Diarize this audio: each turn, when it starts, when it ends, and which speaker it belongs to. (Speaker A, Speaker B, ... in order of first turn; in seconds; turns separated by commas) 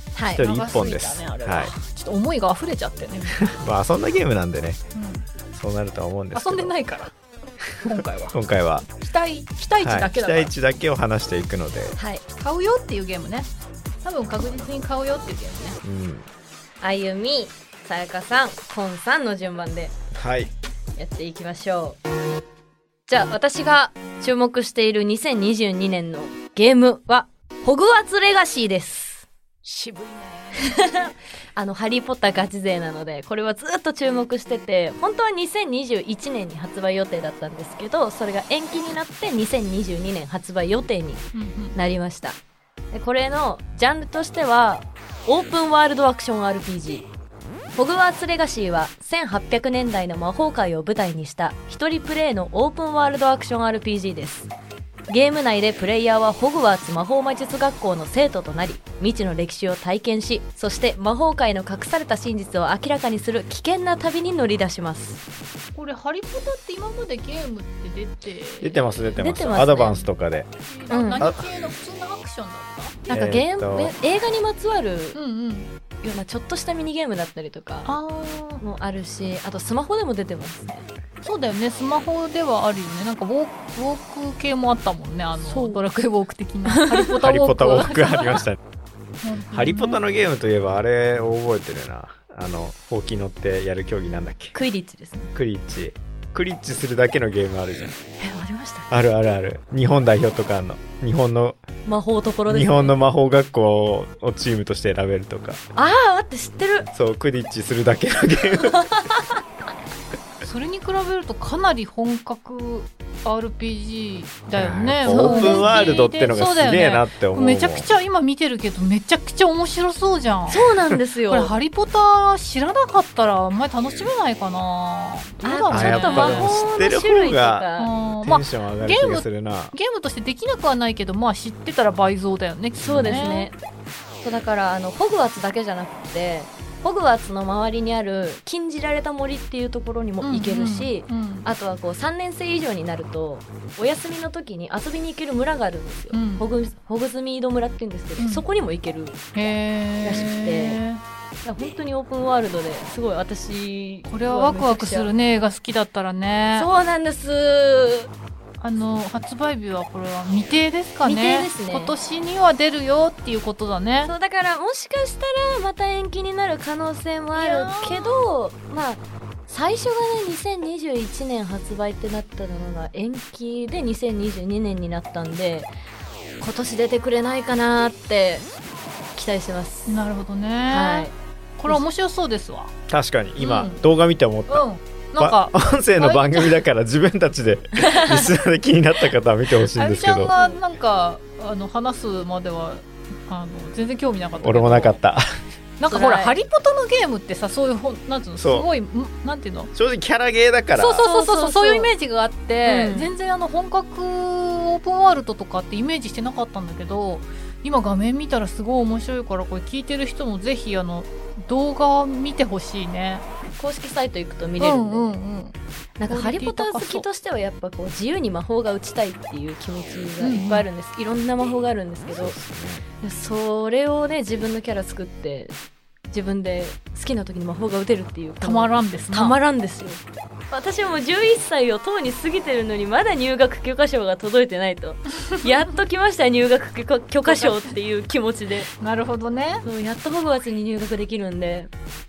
Speaker A: 0.1-0.4, Speaker B: 0.3-1.7, Speaker C: 0.4-3.6, Speaker B: 3.4-4.8, Speaker C: 4.9-5.3, Speaker B: 5.5-6.8, Speaker C: 6.3-7.1, Speaker B: 7.6-8.9, Speaker C: 7.8-8.4, Speaker C: 8.9-10.5, Speaker B: 9.8-12.0, Speaker A: 12.0-12.2, Speaker C: 12.4-13.5, Speaker C: 14.0-15.8, Speaker B: 15.8-16.3, Speaker A: 16.8-20.0, Speaker B: 20.1-20.5, Speaker A: 21.0-22.0, Speaker A: 23.1-29.3, Speaker C: 29.6-30.8, Speaker A: 30.6-41.2, Speaker C: 41.3-41.8, Speaker A: 41.8-42.4, Speaker A: 42.9-47.1, Speaker A: 47.8-54.5, Speaker A: 55.1-65.2, Speaker C: 65.8-68.8, Speaker B: 68.6-70.5, Speaker A: 69.2-70.1, Speaker C: 70.7-73.0, Speaker A: 70.9-71.3, Speaker B: 71.2-71.5, Speaker A: 73.1-75.2, Speaker B: 73.1-74.0, Speaker C: 75.2-75.7, Speaker A: 76.0-77.9, Speaker C: 77.8-78.6, Speaker A: 78.6-80.9, Speaker C: 81.2-88.4, Speaker A: 85.4-85.8, Speaker A: 86.7-87.1, Speaker B: 87.2-88.6, Speaker C: 89.2-90.0, Speaker B: 89.5-94.5, Speaker A: 94.5-95.3, Speaker B: 95.3-98.0, Speaker A: 98.2-98.9, Speaker B: 98.9-101.6, Speaker A: 101.9-103.0, Speaker B: 102.5-105.6, Speaker A: 105.8-106.9, Speaker B: 106.9-108.8, Speaker A: 108.7-109.0, Speaker C: 110.4-120.7, Speaker B: 114.5-117.9, Speaker A: 115.0-116.0, Speaker A: 120.5-121.6, Speaker C: 121.3-126.6, Speaker A: 125.4-127.9, Speaker B: 125.7-127.7, Speaker C: 127.8-133.5, Speaker B: 128.2-129.7, Speaker A: 132.8-133.6, Speaker B: 132.9-133.3, Speaker A: 134.2-149.2, Speaker C: 140.2-141.5, Speaker C: 146.1-146.5, Speaker C: 148.2-148.4, Speaker C: 149.3-151.0, Speaker A: 150.0-150.8, Speaker A: 151.4-155.1, Speaker C: 154.1-156.7, Speaker A: 156.5-158.1, Speaker C: 158.6-164.1, Speaker A: 161.0-161.9, Speaker A: 164.0-175.7, Speaker C: 167.4-168.3, Speaker A: 176.4-178.5, Speaker A: 179.2-180.0, Speaker C: 179.9-182.7, Speaker A: 180.7-181.1, Speaker B: 182.9-184.7, Speaker C: 183.4-183.8, Speaker C: 184.5-186.6, Speaker B: 185.2-190.3, Speaker A: 187.8-188.3, Speaker C: 189.8-195.0, Speaker A: 190.3-190.6, Speaker B: 194.4-195.3, Speaker C: 195.8-199.7, Speaker A: 195.9-196.3, Speaker B: 198.4-198.7, Speaker B: 199.7-201.0, Speaker C: 200.7-213.2, Speaker A: 201.0-201.9, Speaker A: 202.7-203.1, Speaker A: 213.6-215.2, Speaker C: 214.6-215.6, Speaker A: 216.0-222.4, Speaker C: 216.1-217.1, Speaker C: 220.2-220.7, Speaker B: 222.1-222.9, Speaker A: 223.0-225.6, Speaker A: 226.1-238.7, Speaker C: 228.4-229.4, Speaker C: 237.2-237.7, Speaker C: 238.7-239.7, Speaker A: 239.6-241.7